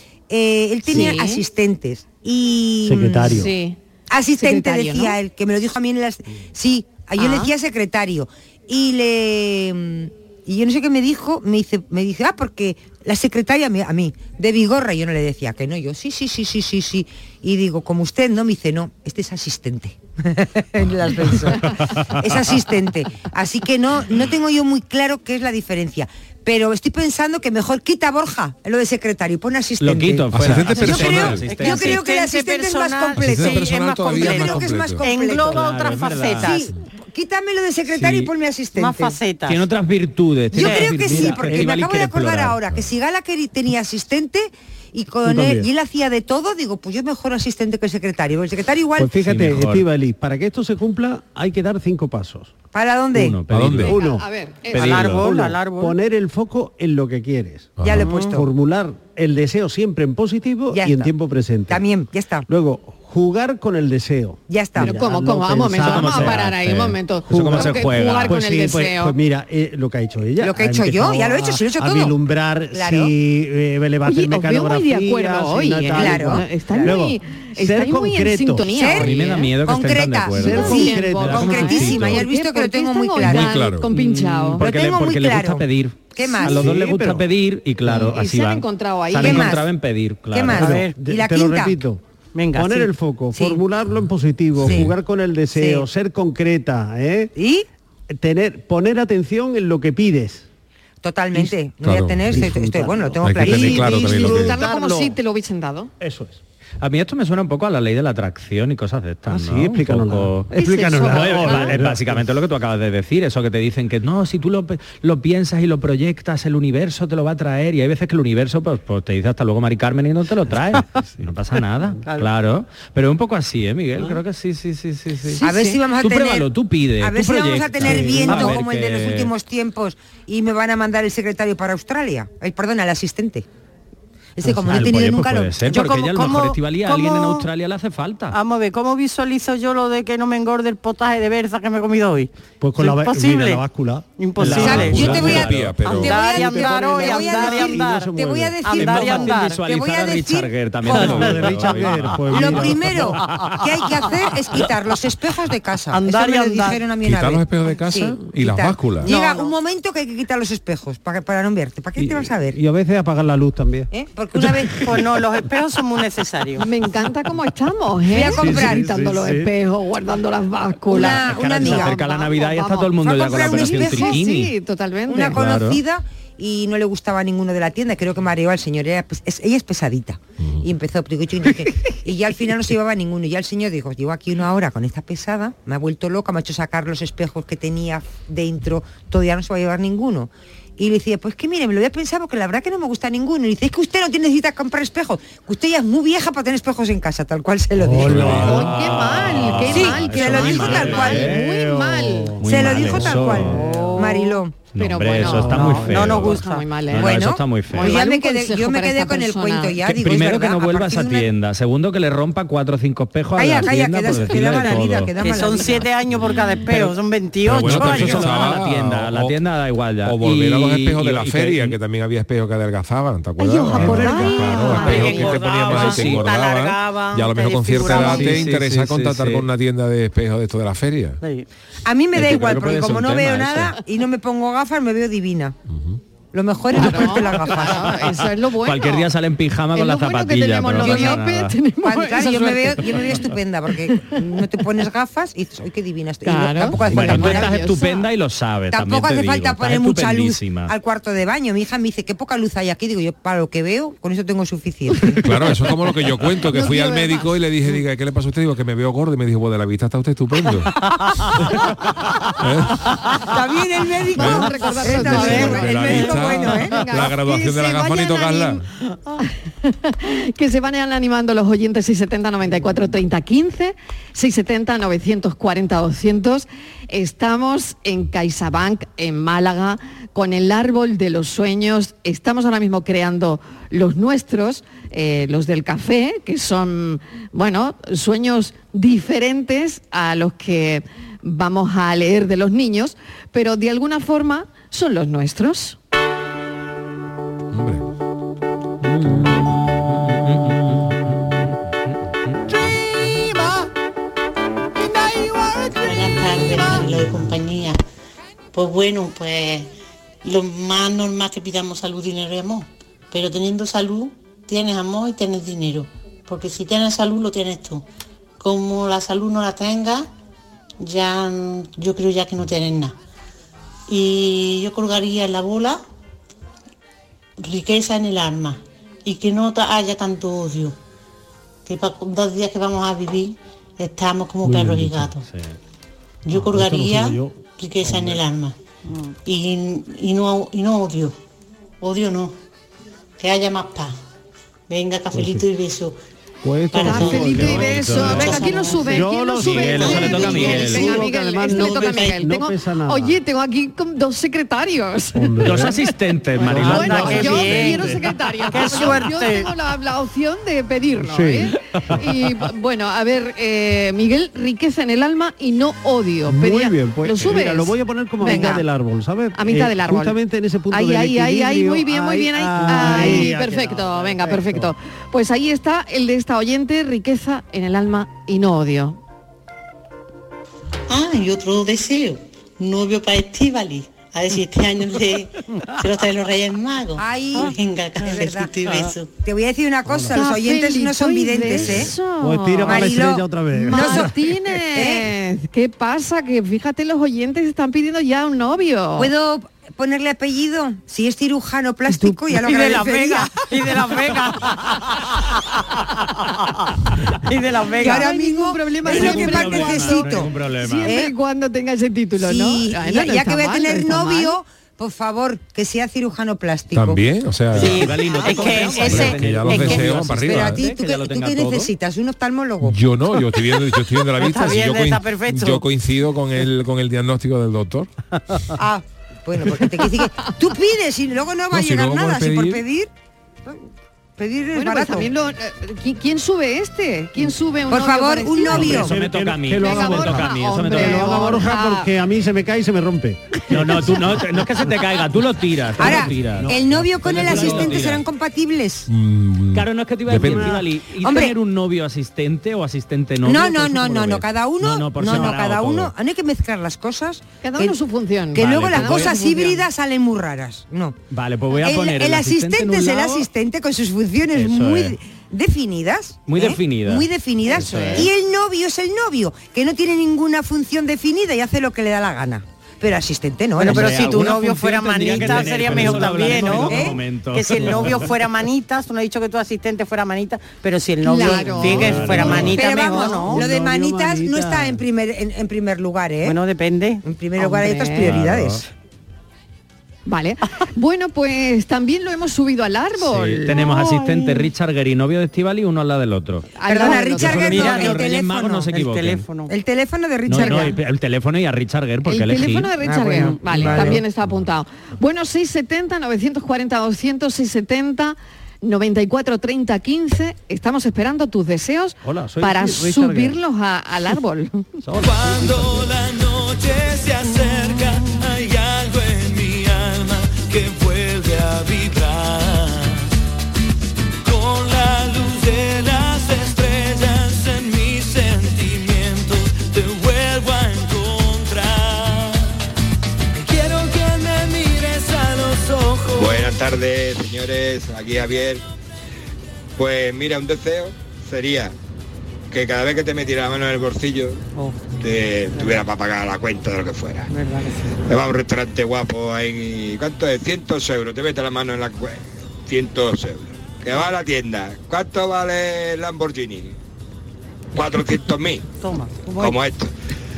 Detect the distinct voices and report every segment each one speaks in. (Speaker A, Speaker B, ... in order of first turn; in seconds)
Speaker A: 0.3-3.5, 4.1-35.6, 36.4-39.2, 40.5-49.2, 52.7-53.4, 57.8-58.4, 60.7-61.1, 61.7-62.5, 64.5-64.9, 70.4-72.2, 72.7-73.1, 75.9-77.0, 78.7-79.1, 79.6-83.7, 84.6-86.7, 89.2-89.7, 90.3-91.8, 93.3-93.6, 94.7-94.9, 95.5-95.8, 97.3-97.7, 101.0-104.3, 125.4-126.5, 127.0-133.5, 134.3-136.4, 144.5-151.4, 152.3-162.6, 163.9-164.9, 168.1-168.8, 170.9-171.9, 173.0-174.2, 175.1-198.6, 199.7-201.3, 202.4-204.5, 206.9-211.3, 213.3-215.9, 231.8-235.6, 236.3-238.0, 240.8-241.2, 241.8-247.7, 248.7-255.2, 263.2-266.9, 387.0-388.5, 389.2-391.9, 392.6-394.1, 394.7-395.1, 399.0-403.4, 407.8-410.3, 410.8-411.1, 412.2-417.0, 419.6-422.8, 428.6-432.9, 434.2-435.1, 437.7-438.9, 445.8-448.9, 451.0-451.3, 453.2-457.8, 458.3-460.9, 461.6-474.3, 476.6-477.0, 482.5-486.4, 487.0-488.7, 496.7-498.7, 499.5-500.8, 502.9-503.9
Speaker B: 0.9-1.4, 3.3-3.8, 4.3-5.2, 7.2-7.5, 53.9-55.0, 64.8-69.2, 74.0-79.5, 80.4-84.6, 88.0-89.5, 103.5-105.9, 110.5-111.7, 125.3-125.8, 166.6-175.4, 198.3-202.4, 204.7-209.8, 223.4-225.4, 236.7-239.1, 239.7-243.2, 246.2-248.0, 256.5-257.2, 264.1-268.7, 269.2-295.8, 346.8-355.7, 356.6-368.6, 369.3-370.2, 370.7-379.0, 390.1-393.0, 393.5-399.1, 407.8-414.3, 434.5-438.9, 439.6-441.9, 457.4-459.6, 481.0-483.2, 487.4-488.1, 490.1-494.5, 496.5-497.9, 500.4-500.7, 502.1-514.7
Speaker C: 2.8-3.5, 41.1-41.6, 45.2-45.7, 49.0-52.5, 53.8-54.2, 55.0-61.8, 62.5-66.5, 67.3-78.9, 80.3-82.2, 86.4-87.3, 90.5-92.0, 92.5-97.3, 98.1-100.5, 102.3-105.1, 106.0-106.4, 109.3-112.3, 127.8-128.5, 134.5-135.0, 142.6-145.3, 146.0-149.0, 150.9-153.2, 161.9-164.7, 168.3-169.5, 197.8-198.7, 200.7-204.2, 205.2-205.9, 334.4-335.1, 336.3-338.2, 345.1-345.5, 346.4-353.2, 355.1-355.7, 356.4-358.1, 361.0-362.1, 366.3-374.7, 389.9-390.2, 391.5-394.2, 438.5-444.3, 445.8-447.8, 450.2-450.6, 475.1-476.7, 481.5-482.6, 483.2-484.8, 512.0-513.4, 514.8-516.0
Speaker D: 29.8-32.1, 35.4-36.6, 37.9-38.3, 39.5-42.6, 49.2-49.9, 53.1-54.0, 54.7-55.3, 65.8-68.4, 79.0-81.9, 83.9-90.8, 106.8-129.3, 134.6-138.4, 144.4-145.9, 148.7-153.0, 170.9-174.5, 175.3-175.8, 198.1-201.4, 202.4-203.6, 204.7-208.0, 209.8-215.1, 217.4-221.8, 225.7-226.3, 227.8-229.4, 232.1-233.8, 238.0-241.5, 246.9-250.7, 300.0-301.4, 347.6-348.3, 349.4-351.0, 355.4-357.5, 408.8-411.0, 417.5-421.7, 438.5-441.4, 443.5-448.0, 449.5-455.9, 458.4-459.2, 461.1-463.3, 464.3-465.0, 466.3-468.1, 473.6-478.2, 481.6-482.6, 488.0-488.6, 493.0-499.2, 500.3-502.7
Speaker E: 30.3-31.5, 33.1-35.0, 53.5-53.9, 57.8-58.1, 83.2-83.9, 94.6-94.9, 101.8-102.5, 103.2-104.6, 144.9-146.1, 157.0-159.1, 198.1-198.5, 217.4-219.4, 220.0-231.2, 235.7-236.0, 255.2-260.7, 262.4-263.1, 264.1-268.6, 297.5-297.8, 416.7-417.9, 418.5-420.6, 422.6-427.9, 431.5-432.6, 448.9-450.6
Speaker F: 30.8-36.7, 38.7-39.6, 40.5-41.0, 54.7-56.0, 58.0-58.4, 90.6-90.9, 92.3-92.9, 135.7-137.4, 138.3-143.6, 144.2-148.1, 148.6-149.6, 155.9-156.9, 159.0-159.5, 164.8-166.7, 205.7-206.7, 214.4-218.4, 223.9-228.4, 231.2-231.4, 338.9-339.1, 356.5-357.8, 358.5-359.5, 401.9-406.6, 407.2-408.1, 417.5-420.0, 424.0-425.6, 467.7-468.0, 473.6-483.4, 486.2-487.0, 497.4-497.9, 498.7-499.5, 503.1-504.0, 544.5-544.8, 545.5-545.9, 547.3-547.9, 558.8-559.6
Speaker G: 305.8-307.8, 308.5-309.7, 310.2-317.8, 318.4-320.1, 320.8-322.9, 323.9-325.8, 327.4-330.8, 331.6-335.2, 336.2-338.6, 339.2-341.1, 341.8-342.4, 343.2-344.0, 344.7-346.0, 346.7-349.0, 349.8-350.4, 380.9-389.1
Speaker H: 515.0-523.1, 524.2-532.6, 533.3-536.5
Speaker I: 536.1-538.6, 539.8-541.7, 542.5-544.4, 545.0-547.3, 548.0-556.8, 557.7-558.7, 559.4-559.9